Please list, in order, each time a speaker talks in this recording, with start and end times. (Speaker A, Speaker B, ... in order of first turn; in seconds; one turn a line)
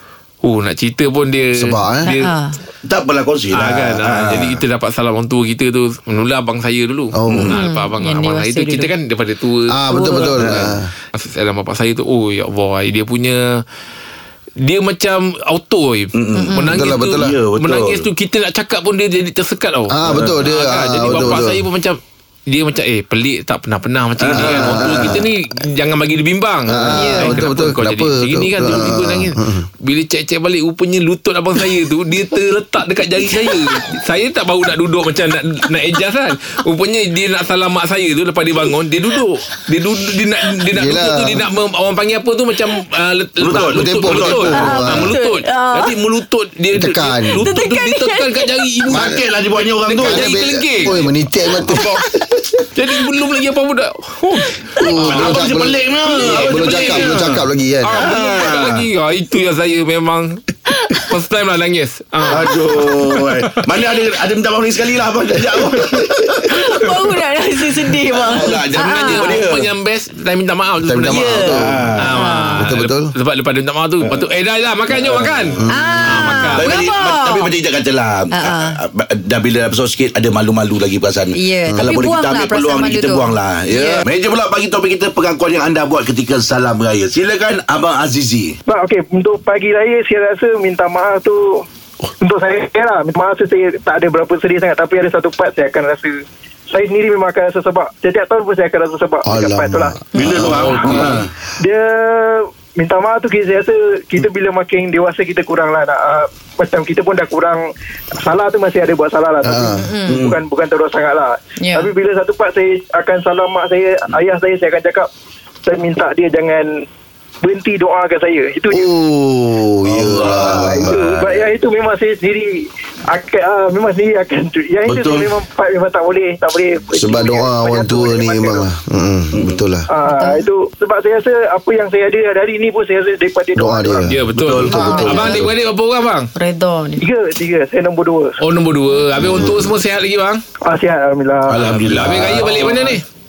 Speaker A: 0.4-2.3
Speaker B: 1.6-2.1
Speaker C: 2.0-2.5
Speaker D: 2.8-4.6
Speaker A: 3.5-10.3
Speaker B: 7.1-7.5
Speaker C: 7.5-8.9
Speaker B: 9.7-10.9
Speaker C: 9.9-10.3
Speaker D: 10.4-10.7
Speaker A: 11.1-13.4
Speaker A: 14.6-49.1
Speaker D: 16.1-18.1
Speaker C: 16.3-16.7
Speaker B: 16.7-17.4
Speaker B: 19.9-21.6
Speaker D: 20.1-20.4
Speaker D: 24.2-25.2
Speaker B: 24.3-25.2
Speaker B: 26.7-29.7
Speaker C: 26.9-27.4
Speaker B: 40.7-41.4
Speaker D: 43.4-44.5
Speaker B: 43.5-45.1
Speaker C: 44.5-46.0
Speaker B: 46.7-47.4
Speaker C: 47.4-48.7
Speaker B: 48.9-49.2
Speaker D: 48.9-50.5
Speaker A: 49.8-51.0
Speaker B: 50.0-52.0
Speaker A: 52.7-55.5
Speaker B: 54.8-58.0
Speaker D: 55.0-58.8
Speaker A: 56.0-57.2
Speaker A: 57.8-60.4
Speaker A: 60.9-63.0
Speaker D: 62.3-66.9
Speaker C: 66.5-69.4
Speaker D: 68.2-69.7
Speaker A: 68.8-76.7
Speaker B: 70.8-72.0
Speaker C: 71.1-71.5
Speaker D: 71.5-72.1
Speaker C: 72.1-72.6
Speaker B: 72.6-73.1
Speaker D: 74.9-75.5
Speaker B: 75.6-76.0
Speaker C: 75.7-77.5
Speaker D: 76.5-88.6
Speaker C: 78.3-78.8
Speaker C: 81.3-84.0
Speaker E: 88.7-91.7
Speaker E: 92.2-100.0
Speaker B: 99.2-100.6
Speaker D: 100.1-101.3
Speaker A: 100.4-101.1
Speaker E: 100.6-107.6
Speaker E: 108.2-115.1
Speaker B: 109.4-109.9
Speaker C: 109.8-110.2
Speaker D: 110.1-110.4
Speaker C: 111.6-111.9
Speaker E: 115.6-116.8
Speaker E: 117.4-118.9
Speaker B: 118.7-121.0
Speaker D: 119.8-121.5
Speaker E: 120.2-128.7
Speaker D: 124.8-125.3
Speaker B: 126.9-129.9
Speaker E: 129.9-134.1
Speaker C: 130.0-130.4
Speaker B: 133.5-135.5
Speaker A: 134.1-136.3
Speaker D: 134.3-134.9
Speaker C: 134.7-135.5
Speaker C: 136.3-137.0
Speaker E: 137.0-138.4
Speaker A: 138.4-140.4
Speaker B: 139.2-139.7
Speaker D: 139.3-139.5
Speaker E: 140.7-141.7
Speaker D: 141.5-142.7
Speaker A: 141.6-143.0
Speaker B: 142.0-142.4
Speaker E: 142.7-142.9